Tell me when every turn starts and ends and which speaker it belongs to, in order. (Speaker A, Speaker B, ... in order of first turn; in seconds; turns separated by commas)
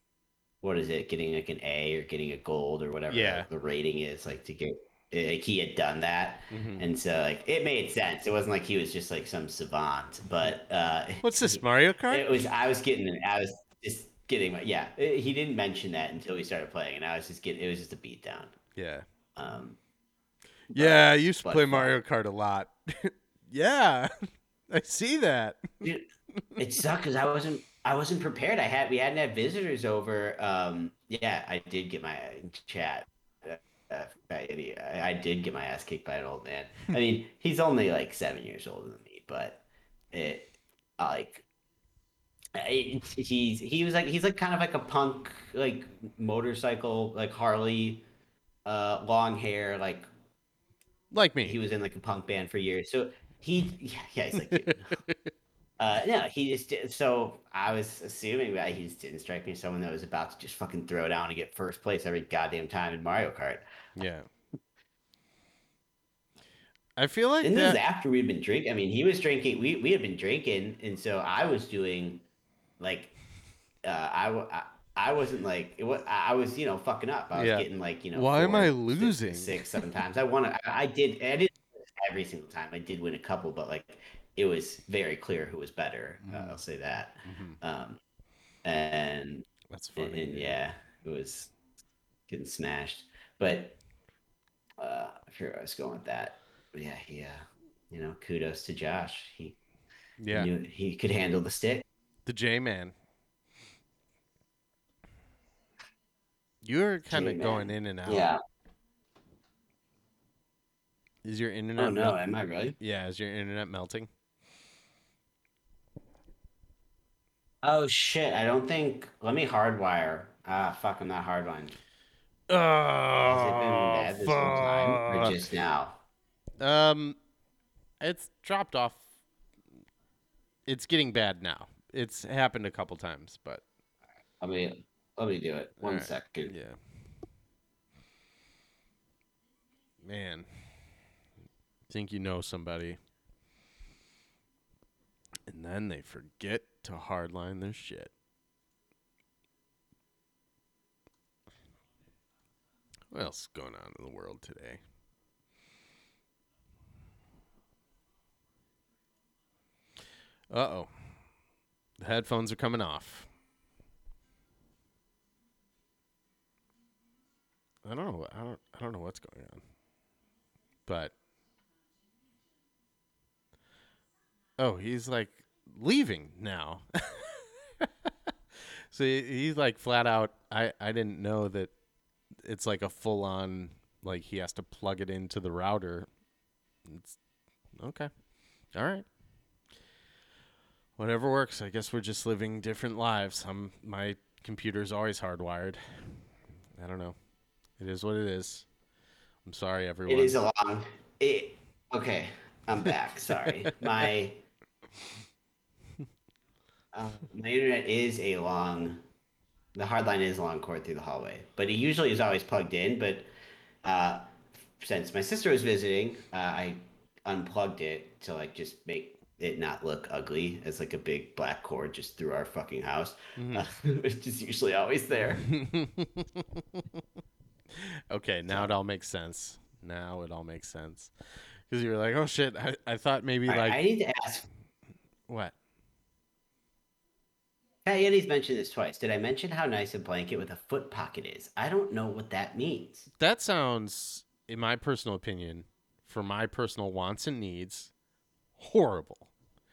Speaker A: 0.6-18.5, Speaker B: 3.1-3.5, Speaker B: 6.5-6.8, Speaker B: 11.2-12.3, Speaker B: 18.8-19.1, Speaker A: 19.4-19.8, Speaker A: 20.7-21.9, Speaker B: 20.7-24.1, Speaker B: 24.7-26.6, Speaker A: 25.8-41.5, Speaker A: 42.5-48.0, Speaker A: 48.7-50.1, Speaker B: 51.1-51.6, Speaker A: 51.4-55.0, Speaker B: 54.3-55.3, Speaker A: 55.8-63.6, Speaker B: 64.0-64.3, Speaker B: 67.0-67.8, Speaker A: 67.4-72.2, Speaker A: 72.8-73.1, Speaker A: 73.8-88.0, Speaker B: 77.3-79.8, Speaker B: 86.2-86.6, Speaker B: 87.2-87.6, Speaker A: 88.7-91.5, Speaker B: 89.7-90.6, Speaker A: 92.3-93.8, Speaker A: 94.8-99.6, Speaker B: 100.2-100.5, Speaker A: 100.3-101.8, Speaker B: 102.3-102.9, Speaker B: 106.6-108.3, Speaker A: 107.1-108.4, Speaker B: 111.2-112.2, Speaker A: 111.8-112.8, Speaker B: 112.8-114.1, Speaker A: 117.6-121.8, Speaker B: 122.5-125.4, Speaker A: 123.3-126.0, Speaker B: 126.6-127.2, Speaker B: 128.0-129.0, Speaker B: 130.7-133.6, Speaker A: 134.4-136.5, Speaker B: 135.8-136.8, Speaker B: 140.0-140.5, Speaker B: 141.9-143.0, Speaker B: 145.5-148.1, Speaker B: 153.1-154.8, Speaker B: 160.5-160.9, Speaker B: 162.0-163.3, Speaker B: 167.8-169.6, Speaker B: 170.9-171.1, Speaker B: 174.6-181.7, Speaker B: 182.4-186.1, Speaker B: 186.9-187.2, Speaker B: 187.7-188.1, Speaker B: 188.7-189.1, Speaker B: 191.0-196.2, Speaker B: 196.8-197.2, Speaker B: 197.8-198.7, Speaker B: 199.4-200.4, Speaker A: 200.1-204.4, Speaker B: 203.3-204.1, Speaker A: 206.9-209.0, Speaker A: 209.8-213.3, Speaker A: 213.8-225.5, Speaker B: 223.4-223.7, Speaker B: 225.2-227.0, Speaker B: 227.7-233.8, Speaker A: 228.5-228.7, Speaker A: 233.5-234.5, Speaker B: 235.3-235.6, Speaker A: 237.8-243.1, Speaker B: 243.2-247.9, Speaker B: 248.6-249.3